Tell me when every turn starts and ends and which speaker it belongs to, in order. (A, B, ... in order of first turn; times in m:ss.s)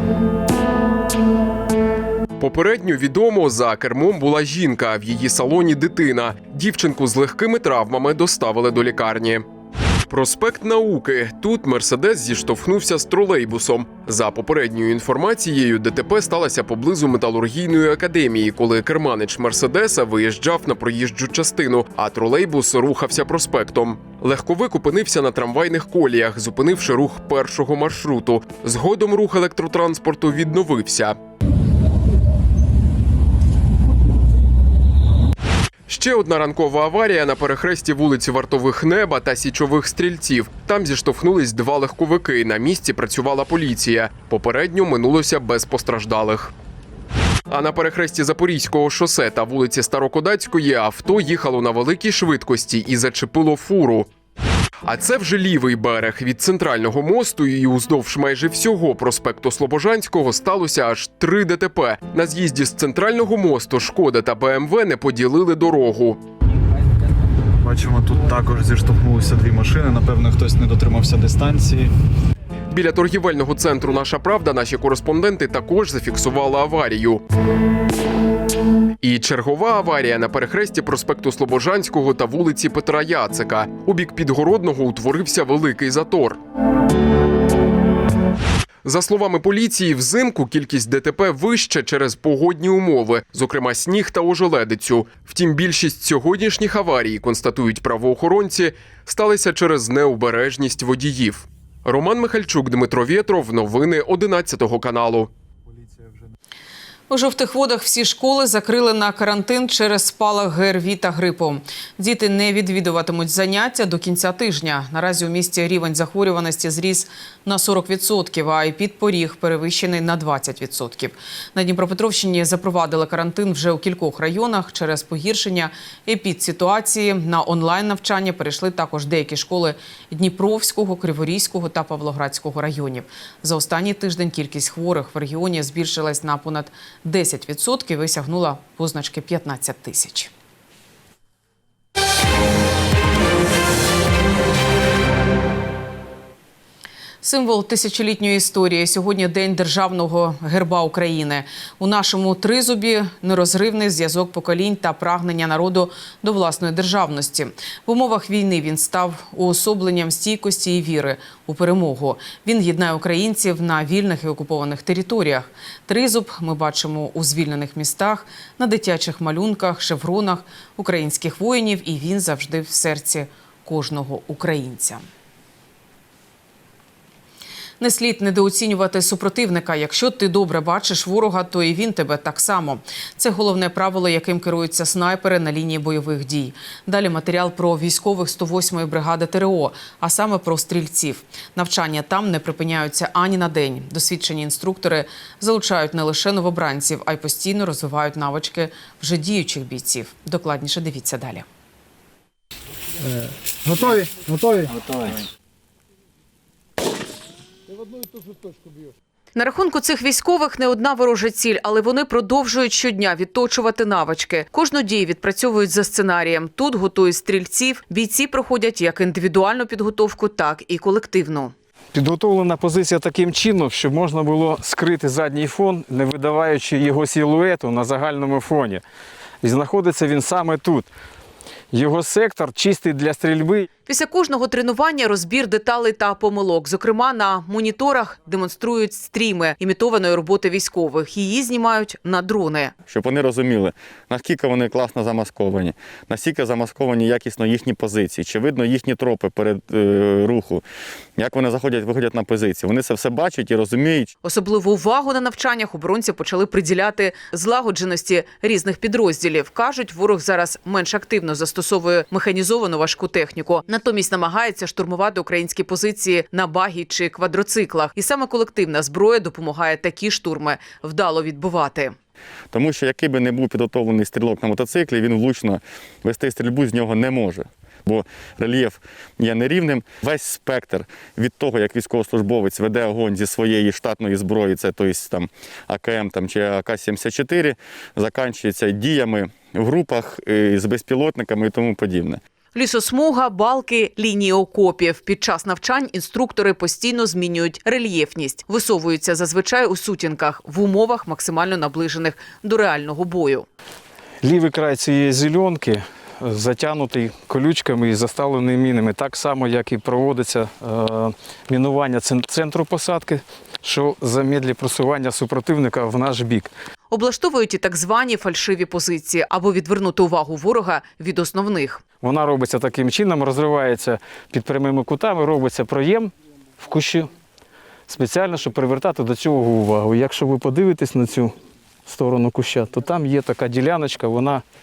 0:02.4-0:09.4 A
0:10.1-0:31.2 A
0:35.9-0:46.5 A
0:47.5-0:54.1 A
0:54.8-1:06.2 A
1:07.6-1:11.9 B
1:12.7-1:17.2 A
1:19.0-1:26.4 A
1:28.8-1:45.3 A
1:45.7-1:46.3 B
1:47.1-2:20.3 C
2:27.2-2:55.0 C
2:57.8-3:21.4 C
3:29.4-3:41.5 C
3:41.9-3:48.8 D
3:49.4-3:50.9 D
3:51.7-3:53.7 D
3:53.9-4:02.7 C
4:02.9-4:10.6 E
4:11.2-4:14.1 E
4:14.2-4:32.0 C
4:32.5-4:52.2 E
4:52.5-5:03.5 C
5:04.2-5:16.5 D
5:16.9-5:21.8 C
5:22.0-5:27.1 D
5:27.9-5:31.3 D
5:31.9-5:34.4 D